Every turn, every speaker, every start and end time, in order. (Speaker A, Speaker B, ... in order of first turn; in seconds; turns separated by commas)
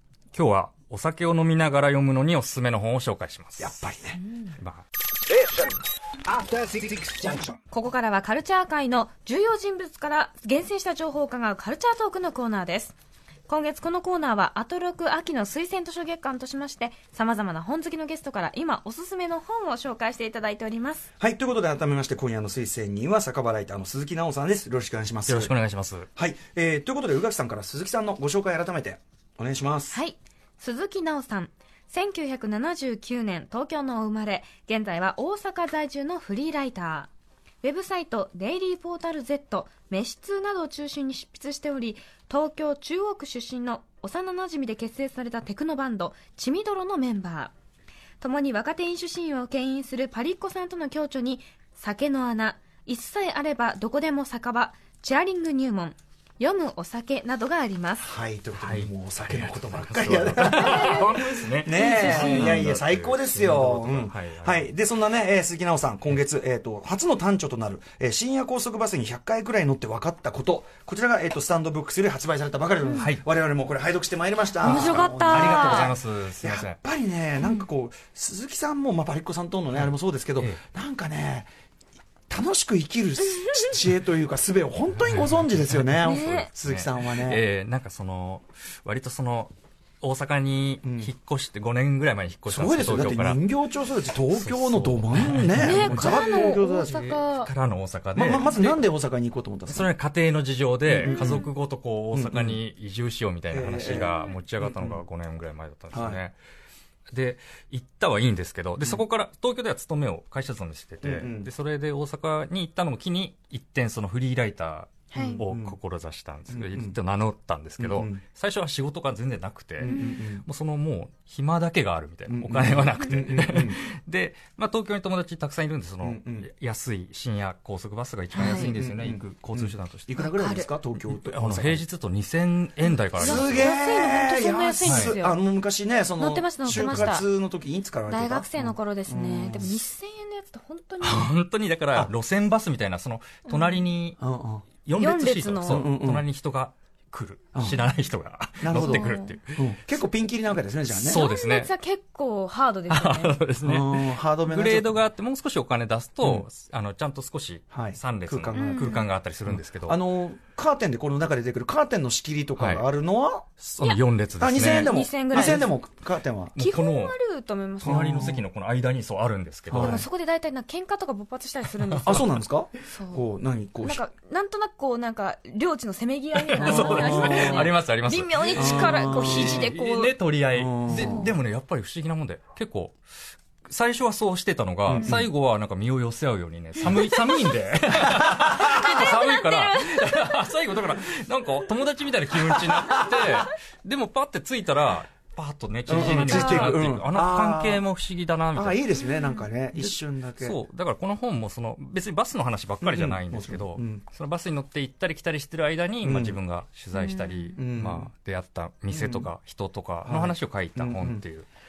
Speaker A: 0.3-3.8, Speaker B: 3.6-4.2, Speaker A: 4.6-4.8, Speaker C: 5.3-7.6, Speaker D: 7.7-12.9, Speaker D: 13.5-21.1, Speaker B: 21.2-25.5, Speaker A: 25.3-26.1, Speaker B: 26.1-30.0, Speaker D: 29.9-37.1, Speaker D: 37.6-47.5, Speaker D: 48.2-58.0, Speaker B: 58.0-81.5, Speaker A: 58.5-64.7, Speaker D: 60.4-62.6, Speaker A: 72.9-73.2, Speaker D: 74.6-75.9, Speaker A: 74.6-76.8, Speaker D: 77.4-77.6, Speaker A: 79.7-80.6, Speaker B: 82.3-87.4, Speaker A: 84.9-93.4, Speaker D: 86.0-86.5, Speaker B: 90.8-91.1, Speaker B: 92.5-97.0, Speaker A: 94.3-98.8, Speaker D: 95.6-97.5, Speaker B: 98.1-99.9, Speaker A: 99.7-106.4, Speaker B: 100.9-101.5, Speaker D: 101.0-101.4, Speaker B: 102.1-102.6, Speaker B: 103.5-105.0, Speaker D: 103.9-104.3, Speaker B: 105.9-106.2, Speaker A: 107.1-130.3, Speaker B: 111.0-111.5, Speaker D: 115.1-115.4, Speaker B: 115.1-115.8, Speaker B: 116.5-117.0, Speaker B: 117.8-118.2, Speaker B: 119.8-120.4, Speaker D: 119.8-120.2, Speaker B: 122.3-123.8, Speaker B: 126.0-126.5, Speaker D: 128.3-128.7, Speaker B: 128.4-131.8, Speaker D: 130.2-130.7, Speaker A: 131.1-133.7, Speaker D: 133.2-135.4, Speaker B: 133.2-139.8, Speaker A: 134.8-135.1, Speaker D: 136.2-137.3, Speaker D: 138.1-141.3, Speaker A: 141.0-144.2, Speaker D: 143.5-143.8, Speaker B: 144.2-144.6, Speaker A: 144.8-149.7, Speaker D: 145.0-145.9, Speaker B: 145.7-146.2, Speaker B: 148.6-151.2, Speaker D: 148.7-149.3, Speaker A: 150.9-151.7, Speaker D: 151.0-153.4, Speaker A: 152.9-160.0, Speaker B: 153.6-155.0, Speaker B: 157.7-163.5, Speaker D: 158.5-159.1, Speaker A: 162.6-162.9, Speaker A: 163.6-165.7, Speaker D: 163.8-165.7, Speaker B: 164.4-166.6, Speaker A: 166.6-167.2, Speaker D: 166.6-168.3, Speaker A: 167.8-170.1, Speaker B: 167.8-168.4, Speaker B: 169.7-170.0, Speaker D: 169.7-172.3, Speaker A: 171.8-172.3, Speaker B: 172.0-174.0, Speaker D: 172.9-173.2, Speaker D: 173.8-180.1, Speaker A: 176.4-183.0, Speaker B: 176.6-177.7, Speaker B: 178.5-179.7, Speaker B: 180.5-181.3, Speaker D: 180.9-181.3, Speaker A: 183.6-198.9, Speaker B: 184.9-185.2, Speaker D: 186.8-187.5, Speaker B: 188.0-188.8, Speaker D: 188.5-190.4, Speaker B: 192.5-193.2, Speaker B: 195.9-197.8, Speaker D: 196.0-196.8, Speaker B: 198.5-200.6, Speaker D: 199.0-199.4, Speaker A: 199.7-211.5, Speaker B: 202.8-204.0, Speaker B: 206.0-206.4, Speaker D: 206.9-207.6, Speaker B: 207.6-208.1, Speaker B: 208.9-209.3, Speaker B: 210.0-211.2